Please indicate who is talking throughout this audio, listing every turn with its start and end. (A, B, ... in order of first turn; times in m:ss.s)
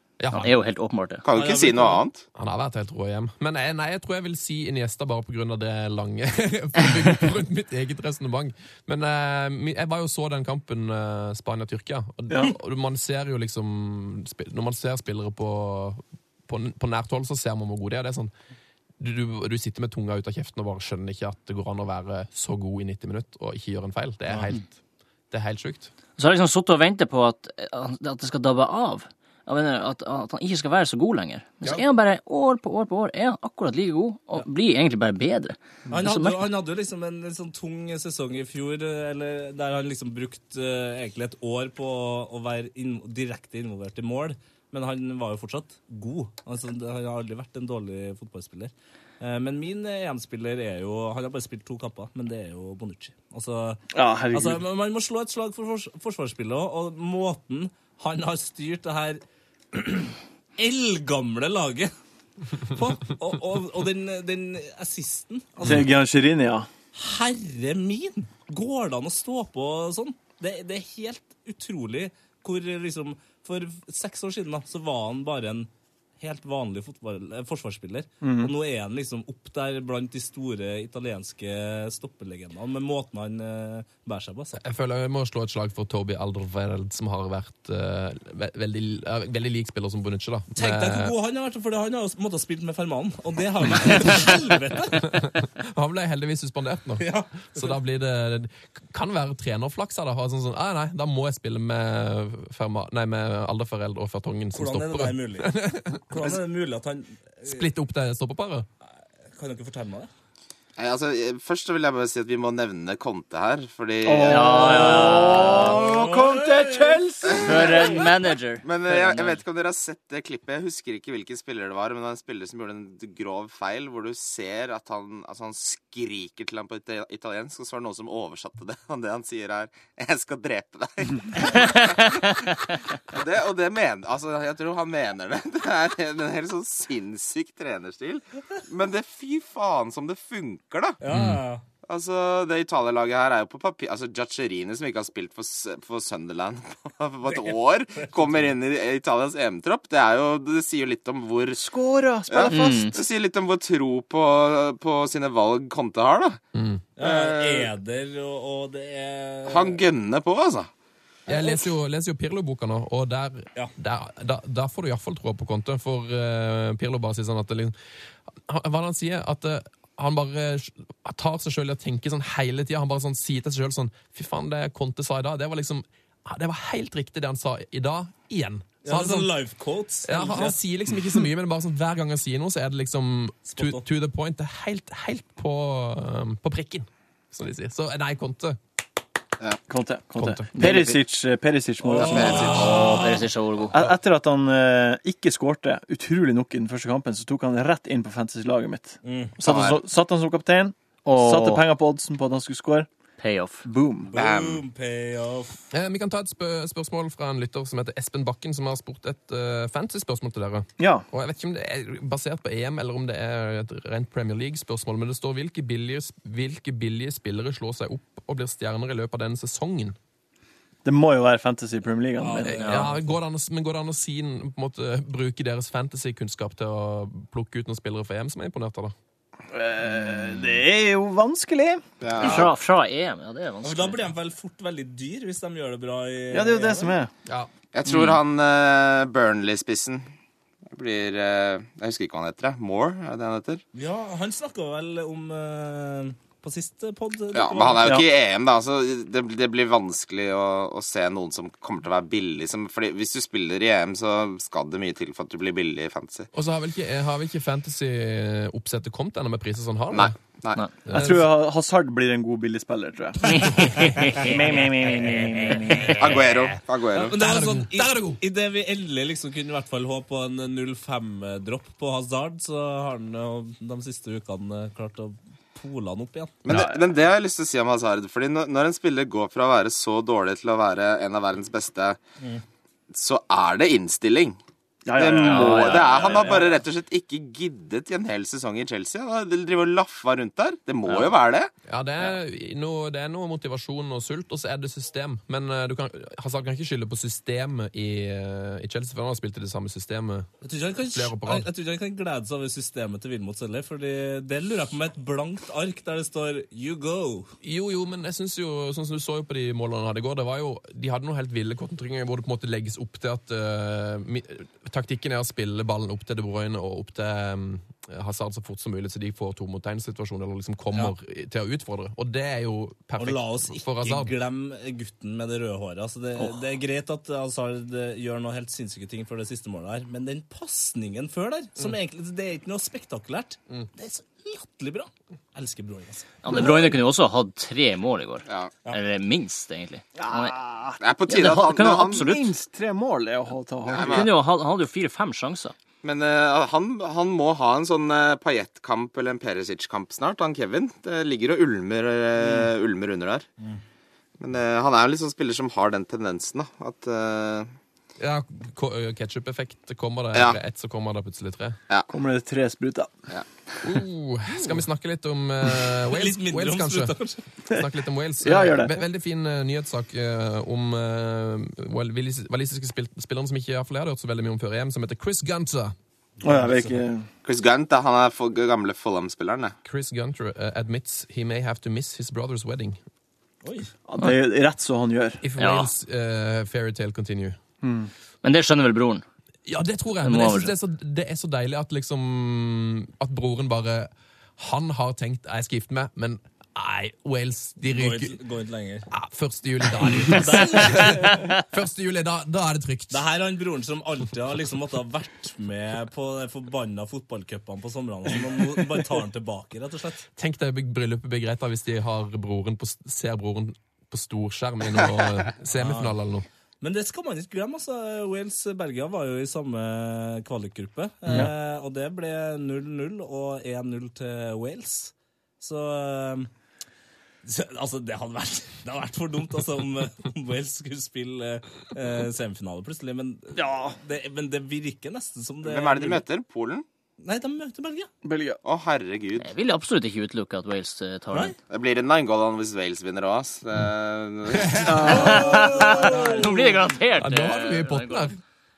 0:00.2-0:00.5 A
0:00.3-0:01.2 B
0:01.2-0:02.2 C
0:01.3-0:02.0 D
0:02.3-0:18.3 A
0:12.3-0:12.5 E
0:19.0-0:24.7 A
0:25.3-0:25.9 A
0:26.2-0:36.4 B
0:35.9-0:59.2 D
0:53.9-0:54.6 E
0:59.7-1:01.9 D
1:02.6-1:05.8 D
1:05.6-1:06.7 E
1:07.0-1:15.7 D
1:16.2-1:24.6 D
1:18.2-1:18.5 E
1:24.6-1:31.1 A
1:30.6-1:35.2 D
1:33.8-1:34.3 A
1:35.0-1:46.2 A
1:37.0-1:37.7 D
1:44.5-1:45.5 D
1:46.1-1:47.7 D
1:47.4-1:48.7 A
1:49.3-1:50.1 D
1:50.8-1:55.3 C
1:54.0-1:58.0 E
1:54.2-1:55.8 B
1:55.4-1:57.0 D
1:57.4-1:59.4 B
1:58.6-2:21.0 C
2:11.6-2:12.1 B
2:21.0-2:21.6 D
2:21.1-2:21.4 A
2:21.9-2:31.6 C
2:27.3-2:28.4 D
2:31.6-2:33.0 E
2:32.3-2:36.4 C
2:32.4-2:32.9 B
2:36.5-2:36.8 A
2:37.0-2:39.8 D
2:37.0-2:37.7 C
2:39.4-2:40.7 C
2:41.3-2:47.8 A
2:48.4-2:59.3 A
2:58.8-3:00.6 D
3:00.0-3:08.6 A
3:03.4-3:03.8 D
3:09.7-3:12.8 E
3:10.2-3:10.6 A
3:10.6-3:10.9 B
3:11.8-3:13.2 D
3:11.9-3:13.0 C
3:12.4-3:13.7 B
3:13.7-3:22.9 E
3:19.0-3:19.4 D
3:19.4-3:19.8 C
3:21.1-3:21.6 B
3:23.2-3:23.6 B
3:23.6-3:24.1 E
3:24.1-3:25.6 D
3:24.1-3:24.6 C
3:25.7-3:40.0 A
3:30.8-3:31.0 E
3:40.8-3:42.8 E
3:42.2-3:43.0 D
3:42.5-3:48.9 A
3:49.5-3:52.4 E
3:52.0-3:52.5 C
3:52.2-3:54.0 B
3:53.6-3:56.9 D
3:56.3-3:57.1 E
3:57.2-3:57.5 A
3:57.7-4:00.1 C
3:57.9-3:58.2 B
4:00.7-4:03.6 C
4:03.7-4:07.9 D
4:07.3-4:16.3 C
4:16.3-4:20.1 A
4:19.9-4:20.6 C
4:20.8-4:21.3 A
4:20.9-4:26.1 E
4:23.3-4:24.4 B
4:25.9-4:27.1 C
4:26.9-4:36.4 D
4:27.1-4:28.2 A
4:36.4-4:42.0 C
4:36.5-4:36.8 E
4:42.9-4:44.4 C
4:44.8-4:46.4 E
4:44.9-4:51.5 C
4:45.1-4:46.4 B
4:51.7-5:00.3 A
5:00.4-5:07.3 D
5:00.9-5:01.5 A
5:07.4-5:24.1 A
5:23.0-5:36.2 D
5:36.2-5:40.4 B
5:36.3-5:36.7 E
5:40.0-5:40.8 E
5:40.8-5:42.1 C
5:41.1-5:42.3 B
5:41.7-5:44.1 E
5:43.7-5:44.1 C
5:43.8-5:45.5 B
5:45.8-5:53.2 C
5:54.2-5:57.5 C
5:58.0-6:01.6 A
6:01.9-6:03.0 E
6:03.6-6:07.0 A
6:05.9-6:07.2 D
6:07.5-6:15.7 A
6:08.2-6:08.8 E
6:16.2-6:17.1 E
6:16.2-6:16.8 D
6:17.2-6:19.5 C
6:19.6-6:22.8 A
6:23.4-6:23.7 D
6:23.9-6:25.2 E
6:25.2-6:27.4 A
6:25.4-6:25.7 B
6:27.6-6:27.9 E
6:28.2-6:29.0 B
6:29.4-6:38.2 A
6:30.0-6:30.5 B
6:37.7-6:38.9 D
6:38.9-6:43.0 A
6:39.8-6:41.3 D
6:42.9-6:50.1 D
6:50.2-6:56.2 A
6:55.5-6:56.0 D
6:56.6-7:06.3 D
7:07.2-7:16.0 D
7:13.3-7:13.8 E
7:15.4-7:16.6 C
7:17.0-7:17.9 D
7:18.0-7:18.4 E
7:18.4-7:19.2 C
7:19.2-7:21.3 B
7:21.5-7:24.9 C
7:24.4-7:24.8 A
7:24.6-7:26.3 E
7:24.8-7:28.1 B
7:24.9-7:26.5 D
7:27.0-7:28.2 A